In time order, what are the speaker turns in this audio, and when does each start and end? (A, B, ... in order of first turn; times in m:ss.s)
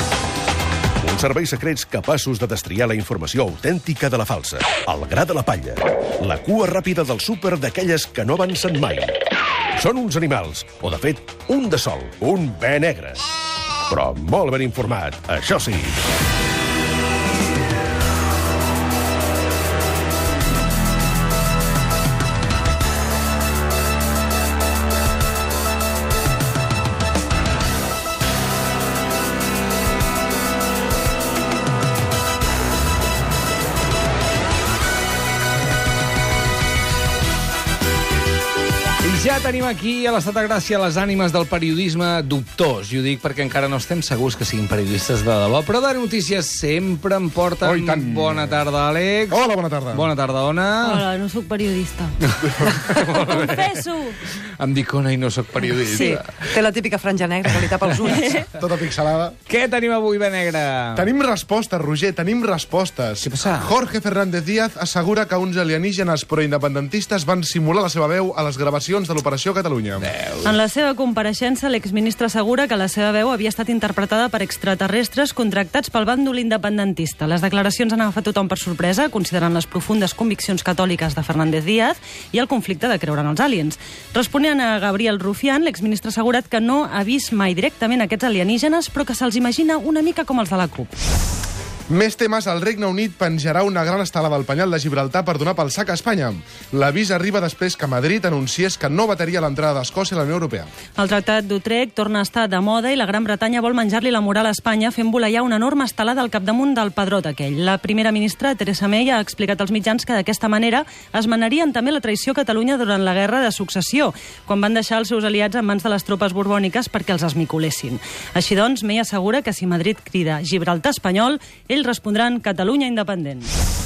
0:01.0-0:09.2 A
0:09.7-0:13.2 A
0:13.9-0:16.0 A
0:39.0-0:51.0 B
0:47.6-0:48.6 C
0:49.3-0:50.1 C
0:50.8-0:52.2 D
0:52.3-0:53.8 B
0:52.5-0:52.8 C
0:53.1-0:54.2 D
0:54.6-0:56.5 B
0:55.8-0:56.2 D
0:55.9-0:58.4 E
0:57.4-0:57.9 B
0:58.3-0:59.4 C
0:59.5-1:01.1 B
1:00.9-1:10.1 C
1:03.2-1:03.7 B
1:10.0-1:10.6 B
1:10.4-1:30.9 D
1:31.9-1:40.7 C
1:41.0-2:03.5 D